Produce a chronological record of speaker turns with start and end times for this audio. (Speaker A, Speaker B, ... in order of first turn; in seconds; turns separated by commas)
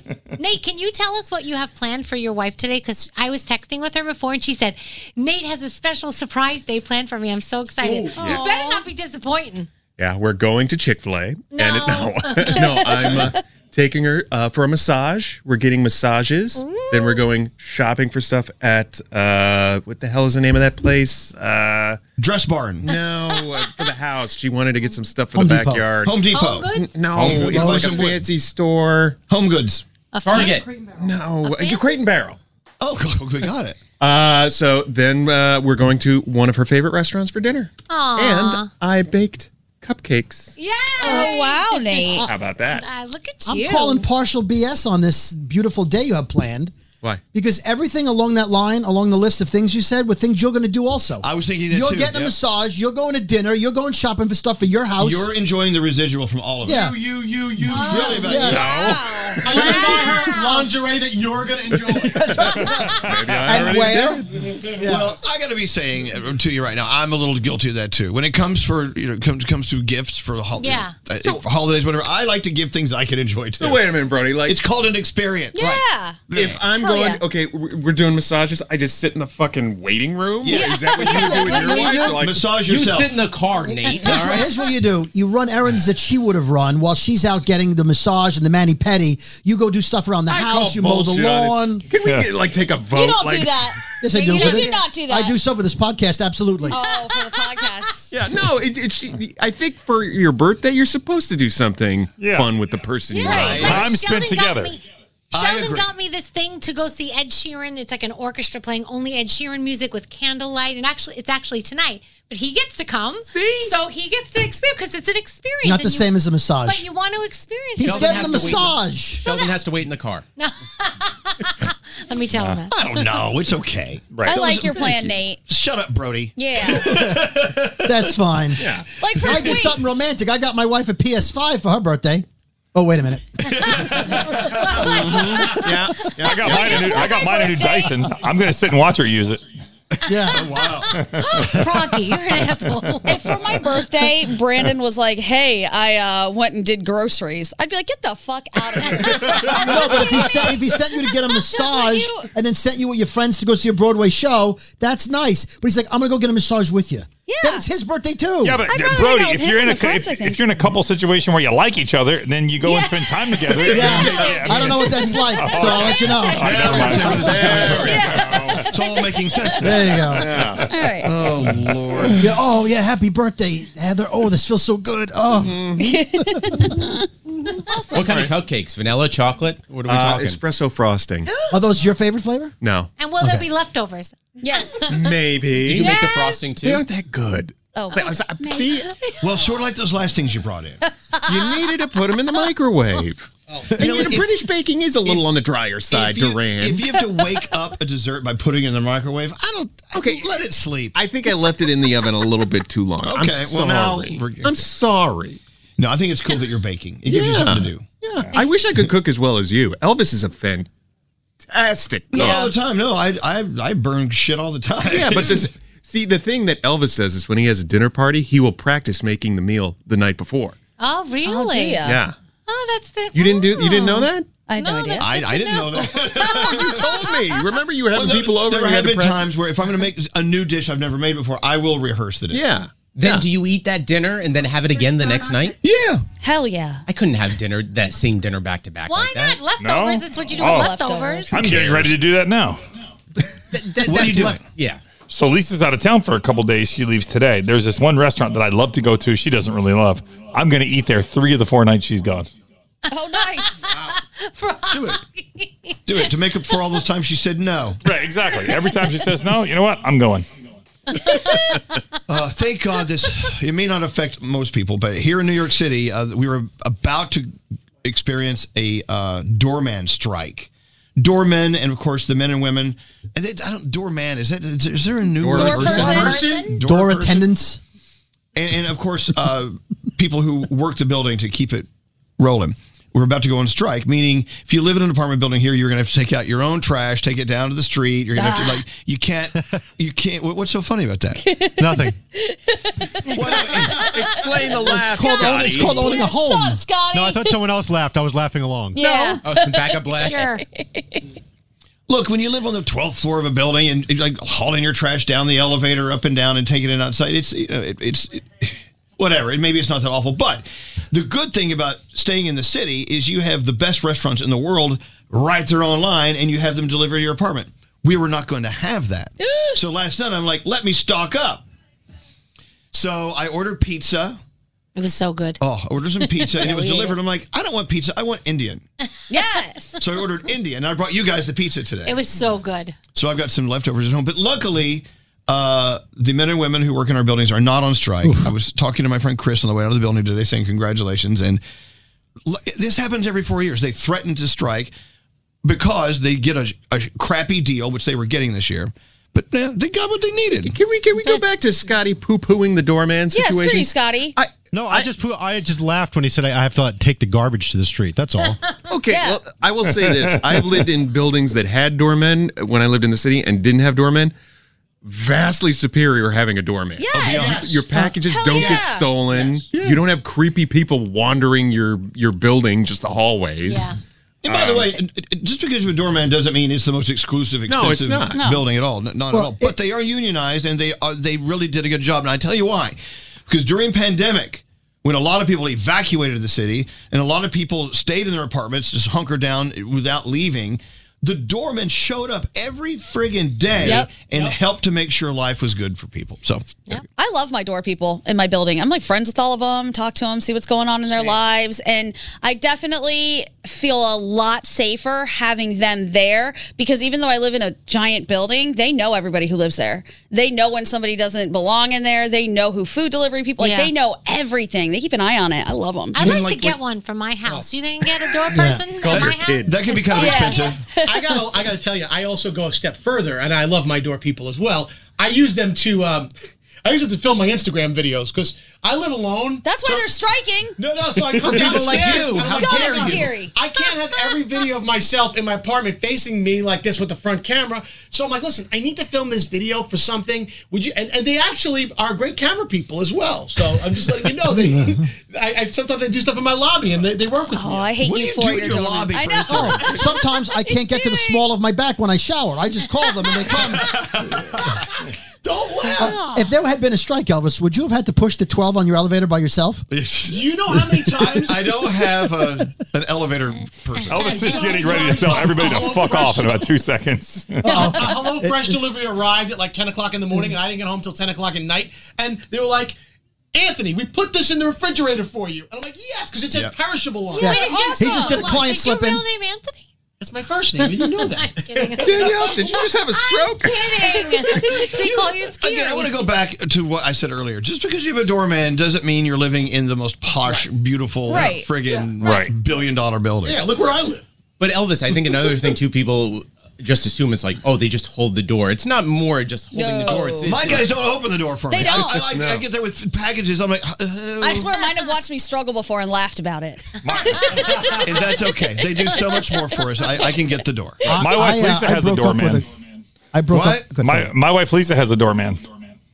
Speaker A: 0.4-9.7, Speaker B: 8.2-8.8, Speaker C: 10.0-22.0, Speaker A: 11.5-13.1, Speaker A: 16.7-17.2, Speaker D: 22.2-22.9, Speaker C: 22.9-29.1, Speaker E: 25.3-25.9, Speaker D: 26.0-28.2, Speaker A: 26.3-26.9, Speaker E: 27.4-28.1, Speaker D: 29.3-29.9, Speaker A: 30.1-30.6, Speaker F: 30.3-30.7, Speaker C: 30.8-32.4, Speaker D: 32.8-33.8, Speaker C: 34.0-40.5, Speaker A: 37.9-38.7, Speaker A: 40.6-42.1, Speaker B: 41.0-42.3, Speaker C: 42.1-42.8, Speaker A: 42.7-44.1, Speaker E: 43.5-46.7, Speaker E: 47.3-55.3, Speaker D: 51.2-52.1, Speaker D: 55.0-58.8, Speaker E: 56.6-57.0, Speaker G: 56.9-57.4, Speaker B: 57.7-60.6, Speaker G: 57.9-58.2, Speaker E: 58.1-58.7, Speaker H: 58.7-59.6, Speaker G: 59.4-61.6, Speaker C: 61.7-64.5, Speaker E: 61.9-65.2, Speaker H: 62.6-63.6, Speaker D: 64.8-73.9, Speaker A: 70.6-71.0, Speaker C: 71.2-71.4, Speaker C: 73.6-74.6, Speaker D: 74.4-76.7, Speaker B: 75.5-76.2, Speaker C: 76.3-82.6, Speaker B: 76.8-77.2, Speaker D: 80.4-80.8, Speaker B: 80.5-82.2, Speaker E: 80.9-82.2, Speaker D: 82.2-83.2, Speaker F: 82.6-84.5, Speaker E: 83.6-91.8, Speaker C: 90.3-94.1, Speaker H: 92.0-92.4, Speaker B: 92.9-95.4, Speaker E: 94.0-96.8, Speaker A: 94.1-94.8, Speaker B: 96.7-98.1, Speaker C: 98.1-103.7, Speaker H: 102.2-102.5, Speaker A: 103.1-104.8, Speaker D: 103.3-103.9, Speaker H: 103.3-104.7, Speaker D: 105.3-105.9, Speaker A: 105.3-118.6, Speaker E: 115.6-116.9, Speaker E: 117.8-119.3, Speaker F: 117.9-120.2, Speaker A: 120.4-122.7, Speaker H: 122.3-122.6, Speaker D: 122.7-128.1, Speaker H: 124.1-124.4, Speaker B: 124.2-125.4, Speaker B: 126.4-127.0, Speaker E: 126.9-134.7, Speaker C: 128.6-129.6, Speaker B: 129.0-129.8, Speaker C: 134.7-136.9, Speaker H: 136.2-139.4, Speaker B: 136.6-136.9, Speaker A: 137.0-137.6, Speaker E: 140.1-140.5, Speaker D: 140.2-140.9, Speaker A: 140.5-143.5, Speaker H: 140.9-141.7, Speaker B: 143.0-150.6, Speaker E: 149.4-158.7, Speaker B: 157.3-157.7, Speaker H: 158.4-168.9, Speaker B: 158.7-160.5, Speaker B: 162.6-165.3, Speaker E: 163.7-167.6, Speaker C: 163.9-164.4, Speaker D: 165.5-168.0, Speaker B: 167.0-169.2, Speaker C: 167.2-168.5, Speaker D: 168.6-169.8, Speaker E: 169.6-170.5, Speaker C: 170.0-172.0, Speaker B: 170.6-171.1, Speaker D: 171.0-172.2, Speaker H: 171.6-172.1, Speaker E: 172.2-176.7, Speaker C: 175.4-175.9, Speaker B: 175.8-176.9, Speaker C: 177.8-178.3, Speaker F: 177.9-180.4, Speaker C: 179.9-181.3, Speaker E: 181.5-182.5, Speaker C: 182.6-182.9, Speaker A: 183.0-185.2, Speaker E: 183.2-183.5, Speaker B: 184.4-184.9, Speaker C: 184.9-185.9, Speaker F: 185.7-186.8, Speaker C: 186.6-188.9, Speaker B: 187.7-188.9, Speaker D: 189.2-190.8, Speaker C: 191.2-197.2, Speaker D: 193.7-194.5, Speaker D: 195.9-201.0, Speaker C: 199.9-200.4, Speaker C: 200.9-205.4, Speaker D: 203.0-204.7, Speaker D: 205.8-207.8, Speaker C: 207.1-210.7, Speaker C: 211.4-212.4, Speaker B: 212.1-212.5, Speaker D: 212.2-215.5, Speaker C: 214.9-220.6, Speaker A: 220.8-221.8, Speaker B: 221.2-222.0, Speaker C: 221.8-222.2, Speaker A: 222.5-224.1, Speaker C: 223.1-224.5, Speaker B: 224.5-225.5, Speaker A: 224.6-225.1, Speaker D: 224.9-226.8, Speaker A: 225.6-226.4, Speaker C: 226.3-229.3, Speaker D: 227.9-232.5, Speaker C: 232.3-233.3, Speaker F: 232.9-235.5, Speaker D: 235.6-236.0, Speaker B: 236.2-236.8, Speaker F: 236.9-239.4, Speaker A: 238.9-241.6, Speaker H: 239.6-240.7, Speaker B: 240.4-241.4, Speaker H: 241.3-242.6, Speaker D: 241.7-242.0, Speaker D: 243.8-244.4, Speaker E: 243.8-244.4, Speaker F: 244.6-244.8, Speaker H: 245.1-252.3, Speaker B: 252.9-253.7, Speaker A: 252.9-256.8, Speaker D: 254.7-255.0, Speaker D: 255.8-257.8, Speaker H: 257.8-260.3, Speaker D: 262.1-267.3, Speaker D: 267.8-277.3, Speaker C: 275.2-276.4, Speaker B: 275.3-276.2, Speaker A: 275.7-276.5, Speaker E: 276.5-277.6, Speaker D: 278.3-281.6, Speaker D: 282.2-291.2, Speaker B: 288.1-288.6, Speaker B: 291.2-293.8, Speaker I: 291.6-291.9, Speaker D: 293.1-294.1, Speaker C: 293.5-296.0, Speaker E: 294.6-296.6, Speaker B: 294.9-297.4, Speaker I: 296.9-298.8, Speaker B: 298.7-301.0, Speaker A: 298.8-299.1, Speaker F: 299.2-300.3, Speaker A: 300.0-300.4, Speaker D: 301.9-321.4, Speaker B: 319.2-319.6, Speaker D: 322.7-324.2, Speaker A: 324.8-326.9, Speaker D: 325.4-328.6, Speaker B: 329.1-329.7, Speaker D: 329.8-332.0, Speaker A: 331.8-332.8, Speaker D: 332.9-341.4, Speaker D: 342.3-344.7, Speaker D: 345.4-350.6, Speaker C: 350.4-354.9, Speaker B: 353.1-354.2, Speaker I: 354.5-358.3, Speaker C: 358.7-364.1, Speaker B: 358.9-359.2, Speaker H: 359.6-360.7, Speaker C: 364.8-373.7, Speaker B: 366.8-368.9, Speaker D: 367.1-367.5, Speaker D: 368.4-368.6, Speaker D: 369.5-369.8, Speaker A: 373.4-373.8, Speaker D: 374.2-382.8, Speaker C: 374.3-374.8, Speaker C: 377.5-378.2, Speaker B: 378.1-378.5, Speaker E: 379.1-379.5, Speaker D: 383.3-396.7, Speaker B: 393.6-393.9, Speaker G: 394.1-394.4, Speaker B: 396.7-416.1, Speaker A: 413.4-413.7, Speaker A: 415.9-420.5, Speaker E: 418.3-418.7, Speaker C: 418.8-419.6, Speaker D: 418.9-420.6, Speaker B: 419.9-420.9, Speaker G: 420.8-426.1, Speaker G: 426.6-429.9, Speaker B: 429.4-430.6, Speaker G: 430.6-447.8, Speaker B: 431.1-431.4, Speaker F: 431.2-433.1, Speaker B: 432.3-434.1, Speaker E: 444.4-444.8, Speaker B: 447.3-451.3, Speaker D: 447.8-449.9, Speaker E: 449.2-453.8, Speaker D: 453.7-454.1, Speaker G: 455.2-455.9, Speaker E: 455.8-459.7, Speaker B: 455.8-456.3, Speaker D: 459.7-464.0, Speaker G: 460.1-461.4, Speaker H: 463.8-467.9, Speaker G: 464.1-466.4, Speaker E: 467.4-468.6, Speaker G: 467.8-472.7, Speaker G: 473.3-478.4, Speaker B: 477.2-478.0, Speaker A: 477.2-479.6, Speaker E: 477.4-479.0, Speaker G: 480.0-481.4, Speaker A: 480.6-486.1, Speaker C: 481.9-484.4, Speaker D: 484.7-493.4, Speaker B: 491.1-491.5, Speaker H: 492.0-492.3, Speaker G: 493.2-494.0, Speaker F: 494.4-500.9, Speaker B: 499.5-500.3, Speaker D: 499.8-504.6, Speaker B: 501.5-502.0, Speaker C: 502.1-502.4, Speaker B: 504.2-507.9, Speaker H: 506.8-507.7, Speaker D: 507.8-510.9, Speaker H: 510.8-512.4, Speaker E: 510.9-512.5, Speaker E: 513.1-514.1, Speaker D: 513.3-513.8, Speaker H: 513.8-515.4